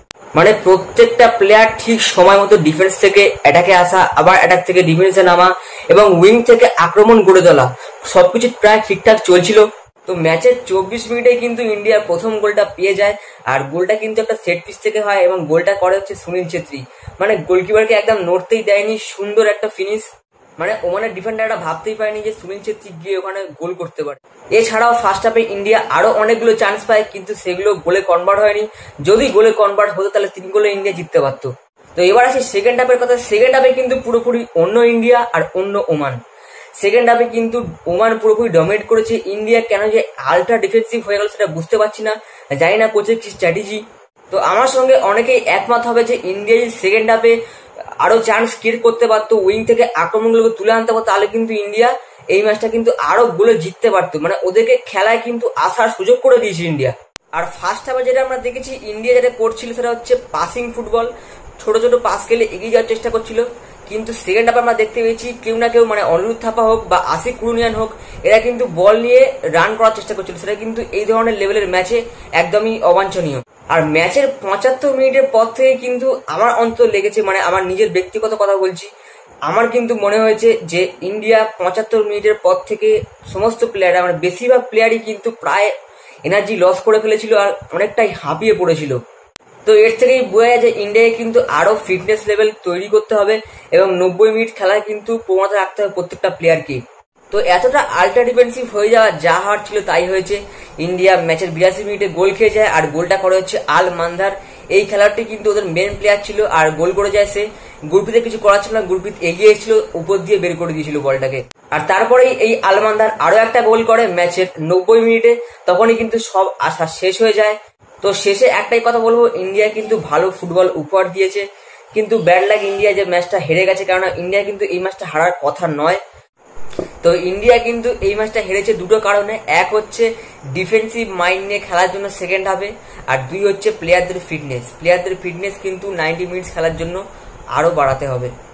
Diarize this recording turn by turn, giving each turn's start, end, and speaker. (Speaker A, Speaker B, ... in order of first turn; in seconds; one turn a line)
Speaker A: 0.3-20.1
Speaker A: 20.6-36.2
Speaker A: 36.8-47.4
Speaker A: 48.0-78.9
Speaker A: 79.5-85.7
Speaker A: 86.2-89.0
Speaker A: 89.7-126.0
Speaker A: 127.0-137.0
Speaker A: 137.5-138.3